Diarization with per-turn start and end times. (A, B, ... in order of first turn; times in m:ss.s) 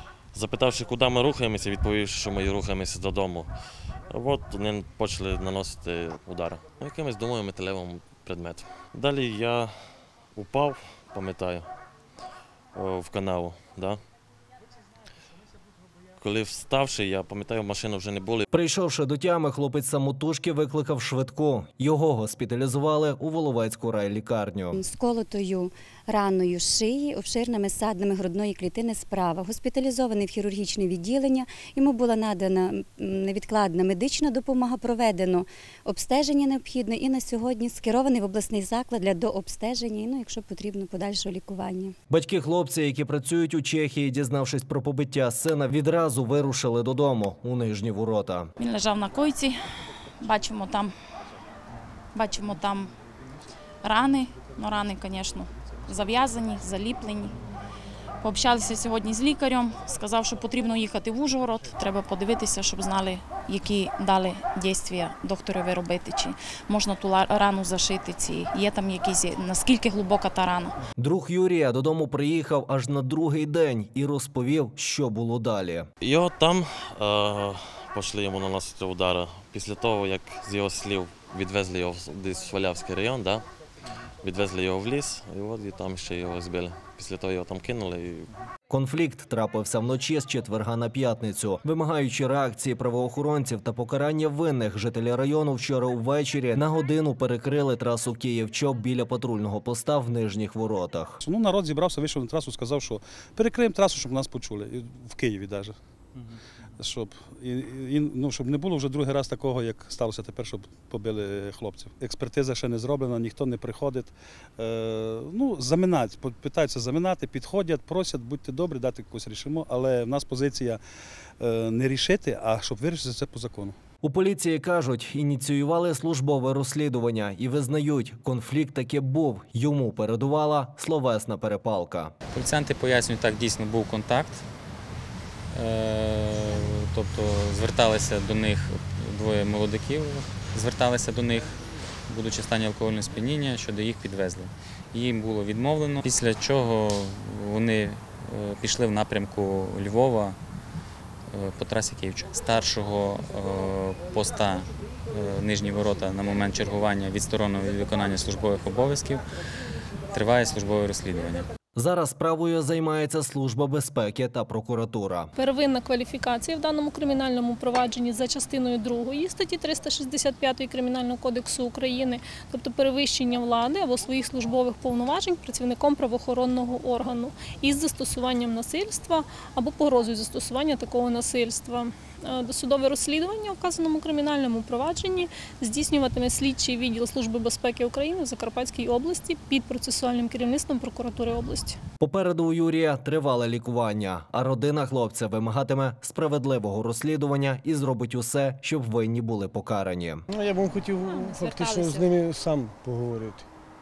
0:00.3-0:03.5 A
0:04.1-0:11.7 A
0:12.7-0:14.0 A
0:16.2-0:18.4 A
0:18.5-0:24.8 B
0:24.7-0:41.9 C
0:42.1-0:48.5 B
0:48.6-0:49.6 D
0:50.2-0:50.9 D
0:52.1-0:52.9 D
0:53.8-0:57.4 D
0:58.2-1:10.8 D
1:11.0-1:15.9 B
1:16.0-1:23.4 A
1:24.2-1:28.3 A
1:28.7-1:41.2 B
1:41.2-1:45.7 E
1:46.8-2:00.8 E
2:01.4-2:03.8 E
2:04.0-2:12.1 B
2:12.3-2:14.4 F
2:15.5-2:21.5 F
2:22.1-2:30.4 F
2:31.3-2:39.2 F
2:40.1-2:41.4 F
2:41.8-2:45.3 B
2:45.4-3:11.8 G
3:12.0-3:20.2 B
3:20.3-3:23.5 H
3:21.0-3:22.1 D